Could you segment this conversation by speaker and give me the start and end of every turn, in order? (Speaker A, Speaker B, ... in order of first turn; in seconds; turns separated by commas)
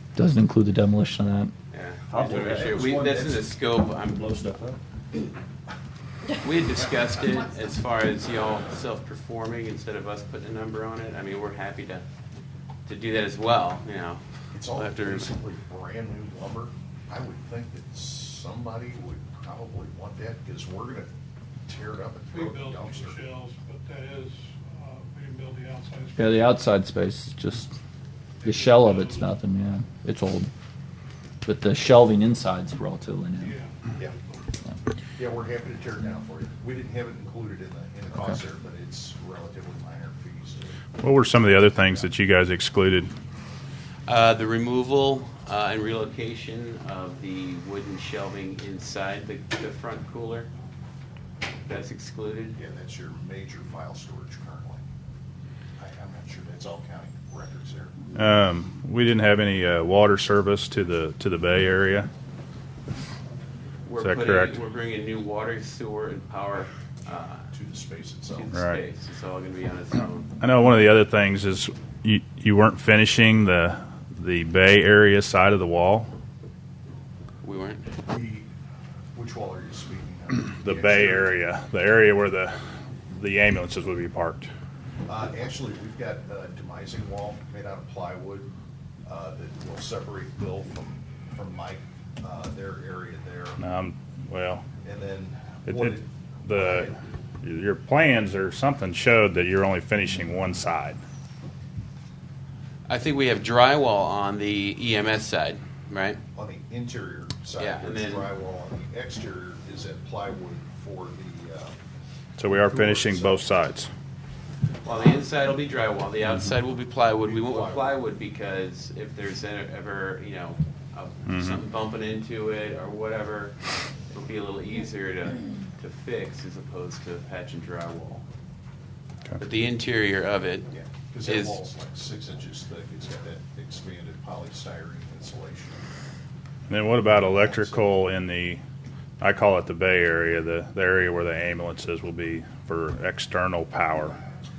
Speaker A: 0.1-1.5, Speaker B: 1.7-4.2, Speaker C: 2.1-3.4, Speaker D: 2.1-3.4, Speaker C: 4.1-4.8, Speaker B: 6.4-12.0, Speaker B: 12.9-15.3, Speaker D: 14.5-21.1, Speaker D: 21.7-23.3, Speaker E: 22.3-26.1, Speaker A: 26.1-27.7, Speaker A: 28.4-30.5, Speaker E: 28.9-29.1, Speaker A: 31.4-33.6, Speaker D: 35.2-40.7, Speaker F: 41.0-43.1, Speaker B: 44.1-50.5, Speaker B: 51.7-52.6, Speaker D: 52.6-54.8, Speaker D: 55.8-57.9, Speaker F: 58.1-62.1, Speaker B: 63.9-67.5, Speaker F: 64.0-64.6, Speaker D: 67.5-68.5, Speaker B: 68.3-70.3, Speaker F: 68.5-68.8, Speaker F: 70.4-76.1, Speaker B: 77.4-77.9, Speaker D: 78.1-78.5, Speaker D: 79.2-81.3, Speaker F: 80.6-82.5, Speaker F: 83.1-84.5, Speaker D: 85.1-88.5, Speaker D: 89.1-93.6, Speaker F: 93.6-94.6, Speaker D: 94.8-97.0, Speaker F: 95.7-101.0, Speaker B: 102.9-106.2, Speaker D: 106.3-111.8, Speaker B: 107.6-108.3, Speaker F: 112.4-113.9, Speaker D: 112.5-113.4, Speaker B: 114.8-123.6, Speaker D: 117.2-118.0, Speaker F: 121.3-121.6, Speaker B: 124.1-128.2, Speaker B: 129.4-130.7, Speaker D: 130.7-135.8, Speaker B: 131.2-131.6, Speaker F: 136.7-138.6, Speaker D: 137.2-137.9, Speaker F: 139.2-144.2